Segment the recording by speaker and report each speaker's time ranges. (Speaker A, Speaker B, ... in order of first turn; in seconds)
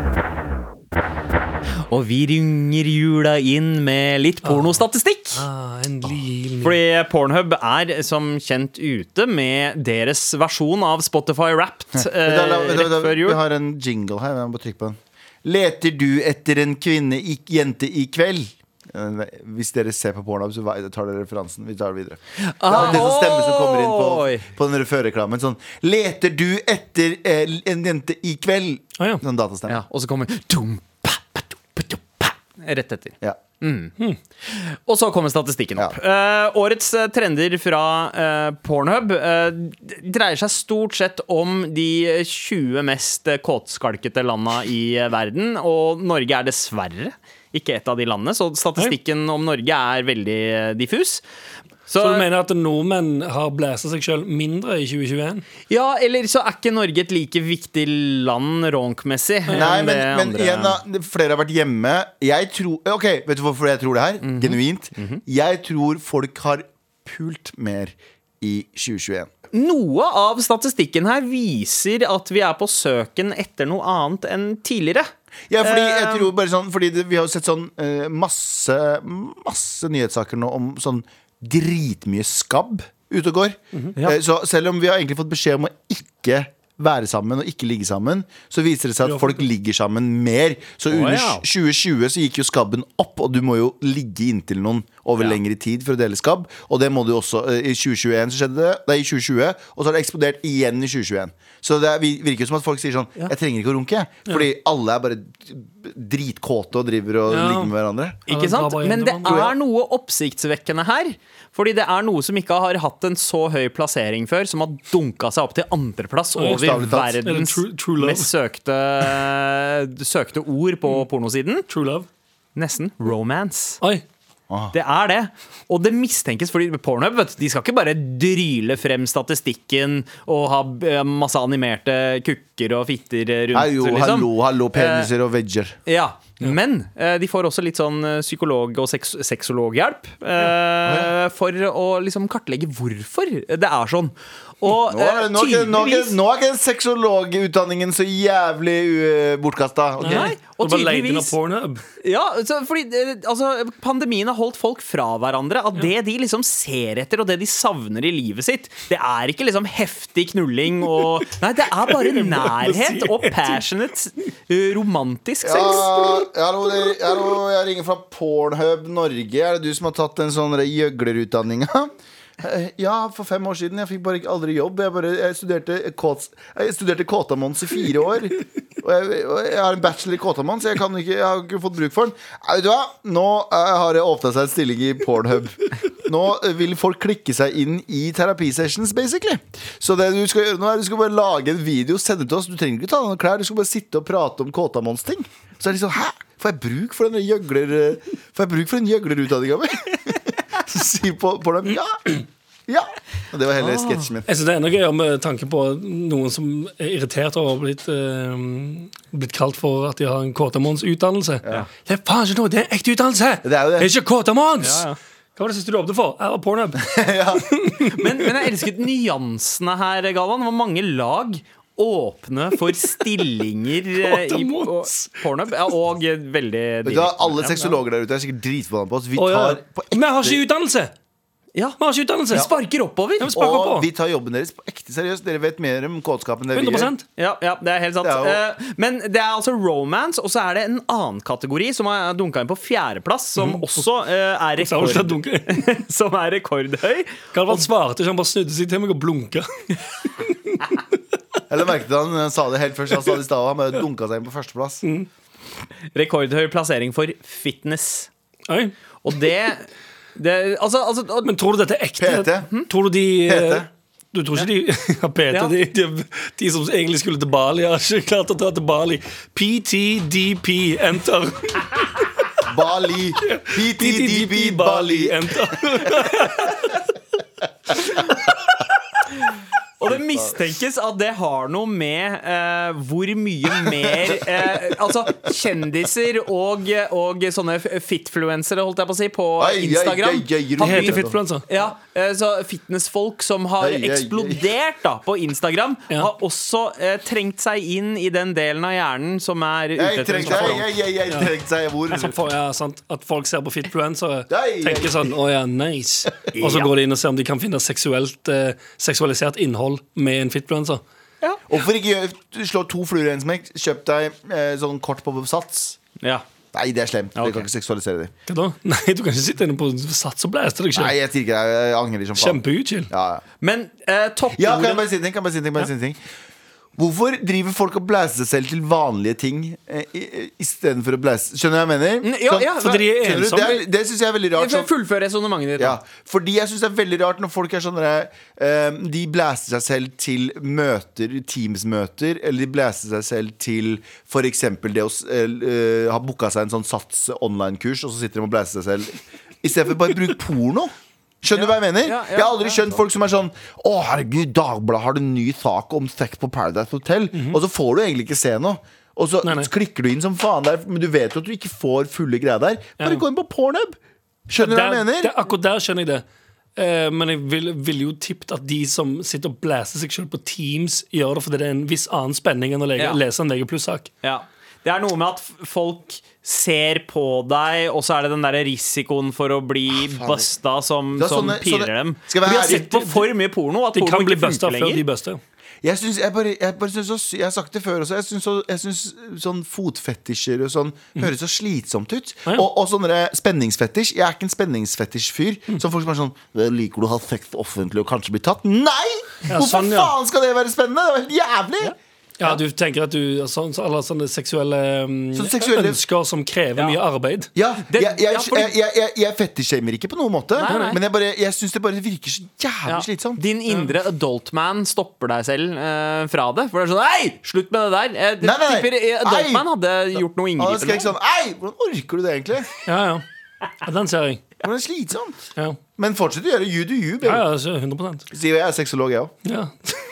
Speaker A: 1.9-5.4, 6.6-13.4, 22.4-24.5, 29.7-51.2, 51.9-52.2, 55.7-60.8, 64.2-65.2, 69.5-75.1, 75.6-76.3, 90.9-91.4, 108.3-121.7, 122.5-123.8, 124.7-135.1, 135.8-146.2, 150.1-151.3, 152.0-166.2, 203.6-204.0, 214.6-214.9, 217.8-227.8, 232.3-233.3, 237.2-247.7, 255.9-258.1, 259.0-261.3, 279.8-300.7, 306.3-306.7, 316.0-316.2, 317.1-317.4, 323.4-324.9, 332.0-332.8, 334.3-335.8, 351.3-352.8, 374.0-384.8, 407.7-408.5, 410.4-410.8, 412.7-420.9
Speaker B: 4.4-4.8, 5.3-6.8, 52.0-55.4, 89.0-89.3, 107.3-107.7, 108.3-109.5, 116.4-118.3, 121.7-122.1, 150.0-151.8, 161.8-163.6, 204.3-217.0, 217.5-218.3, 223.9-225.2, 229.1-230.9, 231.8-232.5, 233.2-233.9, 236.5-237.0, 243.4-243.8, 244.6-245.7, 247.3-249.4, 250.2-250.6, 258.5-258.7, 261.2-271.9, 273.2-276.8, 290.6-291.4, 300.2-301.3, 301.9-310.8, 318.3-320.9, 322.1-322.9, 332.6-333.6, 359.2-359.5, 364.4-366.0, 366.6-373.9, 382.4-383.1, 383.7-385.2, 399.3-399.9, 402.2-407.3, 410.4-410.8, 422.6-423.0, 423.6-424.2, 427.0-428.1, 429.2-429.8
Speaker C: 11.9-29.8, 59.5-69.3, 75.5-108.2, 109.2-109.5, 116.5-117.2, 133.5-135.8, 140.8-141.1, 144.9-150.3, 165.4-204.2, 213.4-213.9, 216.8-217.5, 226.8-230.4, 233.3-236.9, 238.0-238.4, 251.5-254.8, 262.0-262.5, 263.2-263.7, 272.4-275.8, 279.9-280.3, 289.4-291.2, 293.6-294.5, 299.8-302.1, 304.3-305.0, 311.5-315.8, 316.5-318.1, 320.7-323.2, 324.4-326.0, 326.8-334.7, 335.6-363.8, 364.3-365.1, 379.7-380.3, 380.9-382.7, 385.6-402.4, 405.1-405.8, 407.3-413.2, 418.2-419.4, 420.4-422.5, 424.4-425.2, 425.8-427.2, 428.1-429.1